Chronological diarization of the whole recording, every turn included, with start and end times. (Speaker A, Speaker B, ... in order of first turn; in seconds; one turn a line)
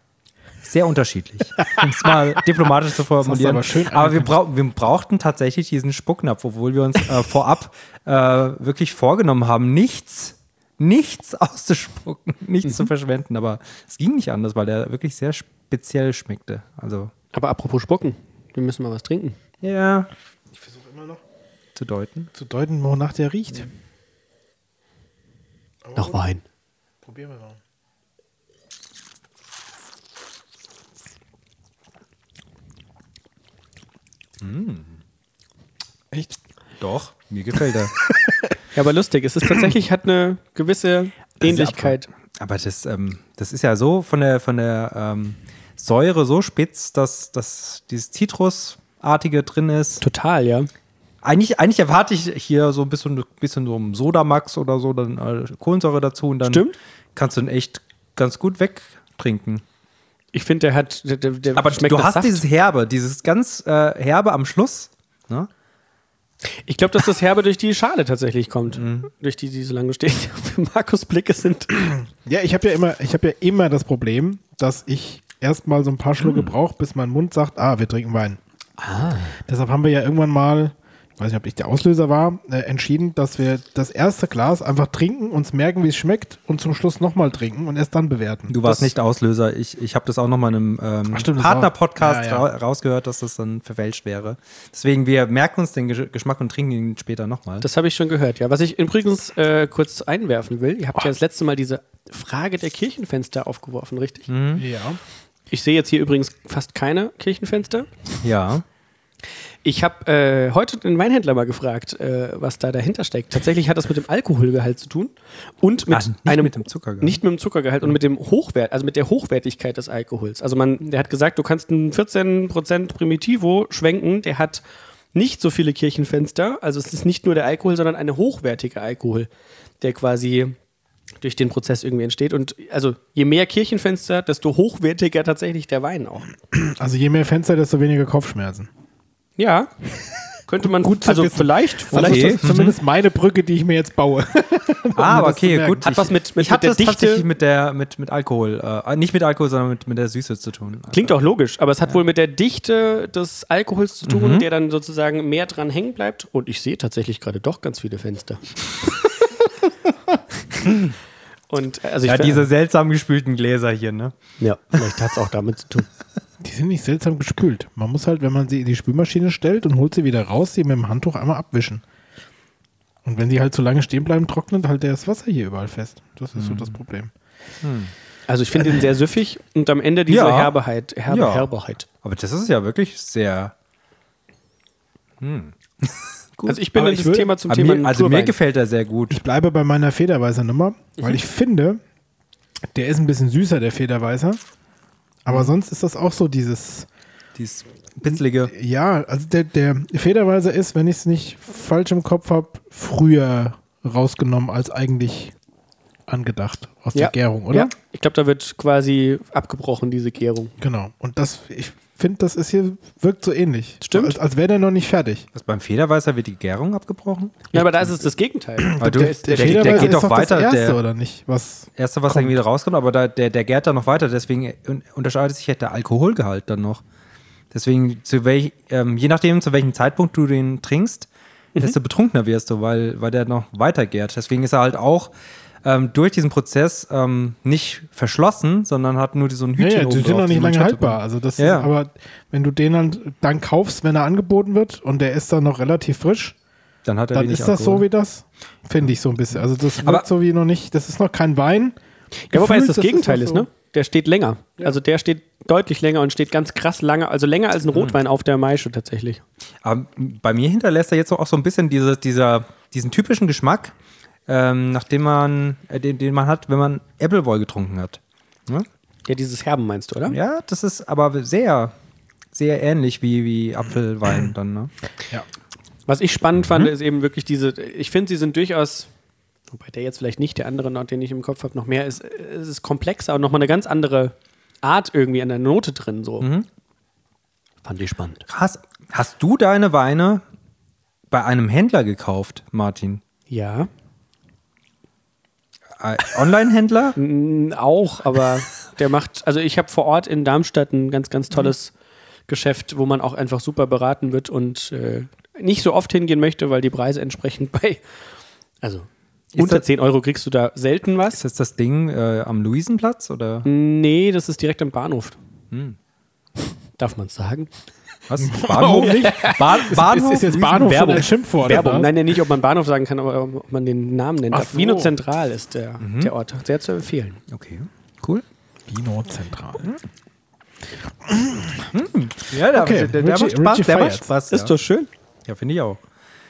Speaker A: 0.6-17.1
Speaker B: 3.2-4.4
Speaker C: 17.3-19.4
Speaker A: 19.6-20.1
Speaker B: 20.5-21.2
Speaker A: 21.8-22.3
Speaker B: 22.3-23.7
Speaker B: 25.8-26.2
Speaker C: 25.9-26.4
Speaker B: 27.0-27.6
Speaker A: 34.4-35.0
Speaker A: 36.8-37.9
Speaker C: 38.7-42.1
Speaker A: 41.4-50.0
Speaker C: 50.0-50.7
Speaker A: 51.2-59.6
Speaker C: 56.4-56.8
Speaker C: 60.3-62.4
Speaker A: 61.5-65.5
Speaker C: 66.7-71.7
Speaker A: 68.7-69.1
Speaker B: 71.8-78.4
Speaker A: 76.2-76.5
Speaker C: 78.8-79.4
Speaker B: 79.5-88.6
Speaker A: 88.5-97.7
Speaker B: 91.1-92.5
Speaker C: 97.6-104.3
Speaker A: 104.3-104.6
Speaker B: 104.6-105.0
Speaker C: 105.5-108.0
Speaker A: 108.2-108.6
Speaker C: 109.6-124.6
Speaker A: 115.9-117.2
Speaker C: 125.1-129.3
Speaker C: 129.8-130.6
Speaker C: 131.2-136.3
Speaker B: 136.5-138.7
Speaker C: 139.4-139.7
Speaker C: 140.5-142.4
Speaker B: 140.6-145.8
Speaker A: 141.9-142.8
Speaker A: 144.9-151.1
Speaker C: 145.8-147.3
Speaker C: 150.9-158.4
Speaker A: 154.0-154.4
Speaker A: 160.7-160.9
Speaker C: 161.5-162.5
Speaker A: 162.0-164.2
Speaker C: 164.4-165.9
Speaker B: 166.4-171.8
Speaker B: 173.0-177.1
Speaker A: 176.3-176.8
Speaker A: 177.6-177.9
Speaker C: 178.3-181.8
Speaker A: 180.1-180.6
Speaker A: 181.1-181.5
Speaker A: 182.0-183.5
Speaker A: 185.2-186.6
Speaker C: 186.4-188.3
Speaker B: 186.7-187.3
Speaker A: 187.5-189.2
Speaker B: 189.1-191.8
Speaker B: 192.7-194.4
Speaker B: 195.2-196.9
Speaker A: 197.3-198.5
Speaker B: 198.1-205.3
Speaker B: 206.1-207.7
Speaker C: 206.9-210.5
Speaker B: 210.6-215.3
Speaker C: 213.8-214.2
Speaker A: 215.3-217.9
Speaker C: 217.5-220.0
Speaker B: 218.6-222.4
Speaker A: 218.8-220.8
Speaker A: 221.8-226.8
Speaker A: 227.5-231.1
Speaker A: 231.6-241.7
Speaker B: 239.6-246.3
Speaker A: 246.8-247.8
Speaker B: 247.1-251.8
Speaker A: 248.8-250.1
Speaker C: 252.3-259.2
Speaker B: 252.3-253.4
Speaker A: 259.6-263.7
Speaker A: 264.3-268.7
Speaker C: 269.1-270.2
Speaker A: 270.1-271.7
Speaker A: 272.3-274.7
Speaker C: 275.9-278.9
Speaker A: 276.4-276.7
Speaker C: 279.5-286.3
Speaker A: 286.2-286.5
Speaker C: 287.6-288.2
Speaker A: 288.3-290.2
Speaker A: 291.1-293.0
Speaker C: 293.3-293.7
Speaker A: 295.8-297.0
Speaker C: 297.0-301.7
Speaker C: 302.3-307.8
Speaker C: 308.6-311.2
Speaker A: 309.3-309.6
Speaker A: 311.1-313.5
Speaker C: 313.4-315.2
Speaker A: 315.5-315.8
Speaker C: 316.8-317.5
Speaker A: 318.1-321.1
Speaker B: 318.2-321.9
Speaker C: 318.8-319.6
Speaker C: 320.6-327.2
Speaker B: 324.3-324.9
Speaker A: 325.8-326.1
Speaker A: 327.3-328.2
Speaker B: 328.7-329.7
Speaker B: 331.0-331.7
Speaker A: 331.7-334.5
Speaker B: 332.5-334.1
Speaker C: 334.3-334.9
Speaker A: 335.2-335.8